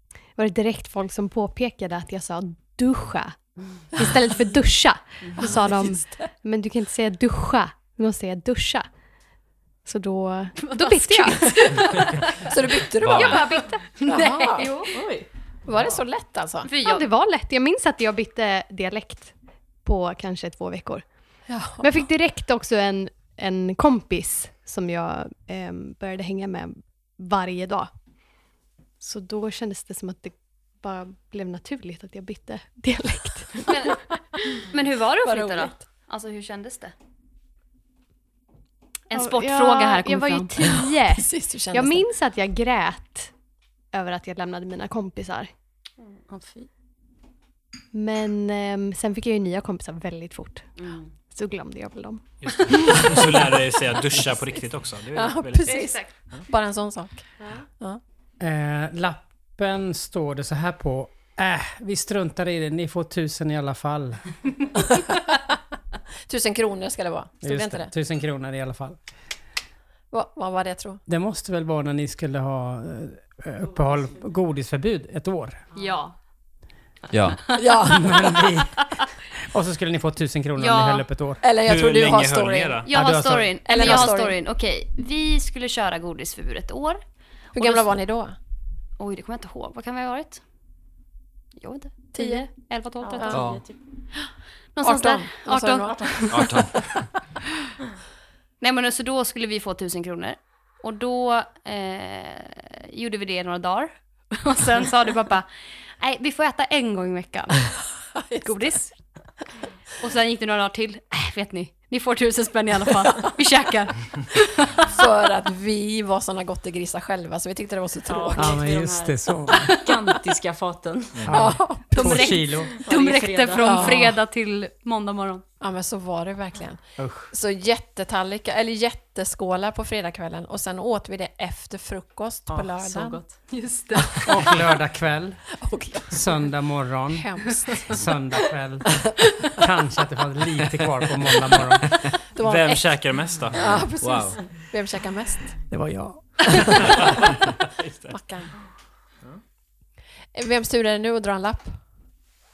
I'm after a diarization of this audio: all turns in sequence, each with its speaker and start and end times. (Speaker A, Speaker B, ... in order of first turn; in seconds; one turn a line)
Speaker A: 0.4-3.4
Speaker A: 3.9-8.9
Speaker B: 5.3-5.5
Speaker C: 5.4-6.2
Speaker A: 9.8-12.2
Speaker D: 10.7-12.0
Speaker C: 12.4-13.4
Speaker E: 13.0-13.5
Speaker D: 13.1-14.9
Speaker C: 14.1-14.7
Speaker A: 14.1-14.9
Speaker B: 14.9-15.3
Speaker C: 15.7-16.7
Speaker D: 16.7-17.1
Speaker A: 16.8-19.3
Speaker A: 19.8-21.1
Speaker C: 21.5-21.9
Speaker A: 21.8-27.9
Speaker A: 29.0-33.9
Speaker D: 33.7-36.9
Speaker C: 35.2-35.8
Speaker D: 39.1-40.5
Speaker A: 39.1-43.3
Speaker C: 40.7-42.1
Speaker A: 43.9-45.5
Speaker B: 46.3-46.7
Speaker A: 47.9-53.3
Speaker D: 50.8-51.1
Speaker F: 52.4-55.8
Speaker C: 55.1-57.3
Speaker A: 55.7-56.0
Speaker G: 58.4-64.3
Speaker C: 66.3-67.9
Speaker G: 67.4-69.0
Speaker C: 70.1-71.0
Speaker G: 71.1-75.7
Speaker B: 73.8-74.1
Speaker D: 75.7-76.2
Speaker E: 77.1-77.4
Speaker C: 77.5-78.4
Speaker G: 77.8-78.9
Speaker G: 79.5-81.5
Speaker D: 80.6-81.1
Speaker C: 81.4-82.8
Speaker F: 81.6-82.9
Speaker D: 82.9-87.0
Speaker G: 82.9-84.1
Speaker C: 83.7-84.4
Speaker C: 87.5-88.4
Speaker D: 87.6-87.9
Speaker D: 89.0-90.4
Speaker D: 91.6-93.5
Speaker C: 92.2-92.5
Speaker B: 93.0-93.8
Speaker E: 93.3-93.6
Speaker D: 94.8-96.6
Speaker C: 94.8-96.8
Speaker E: 96.3-96.8
Speaker D: 98.6-105.5
Speaker D: 106.0-107.7
Speaker C: 108.2-108.7
Speaker D: 108.4-108.9
Speaker D: 110.0-114.9
Speaker C: 114.8-118.7
Speaker B: 118.1-121.3
Speaker G: 118.4-119.8
Speaker E: 121.2-121.5
Speaker G: 121.2-122.7
Speaker C: 121.3-122.4
Speaker D: 121.9-125.4
Speaker B: 122.7-124.0
Speaker C: 123.6-124.2
Speaker C: 125.6-133.2
Speaker G: 127.0-127.3
Speaker B: 132.5-133.4
Speaker D: 133.5-134.1
Speaker G: 134.2-137.3
Speaker C: 135.6-136.3
Speaker C: 137.1-138.0
Speaker G: 137.8-141.9
Speaker C: 142.3-145.6
Speaker F: 142.4-143.7
Speaker E: 144.0-144.4
Speaker G: 145.7-147.1
Speaker F: 146.9-148.2
Speaker C: 148.1-148.5
Speaker C: 150.3-151.8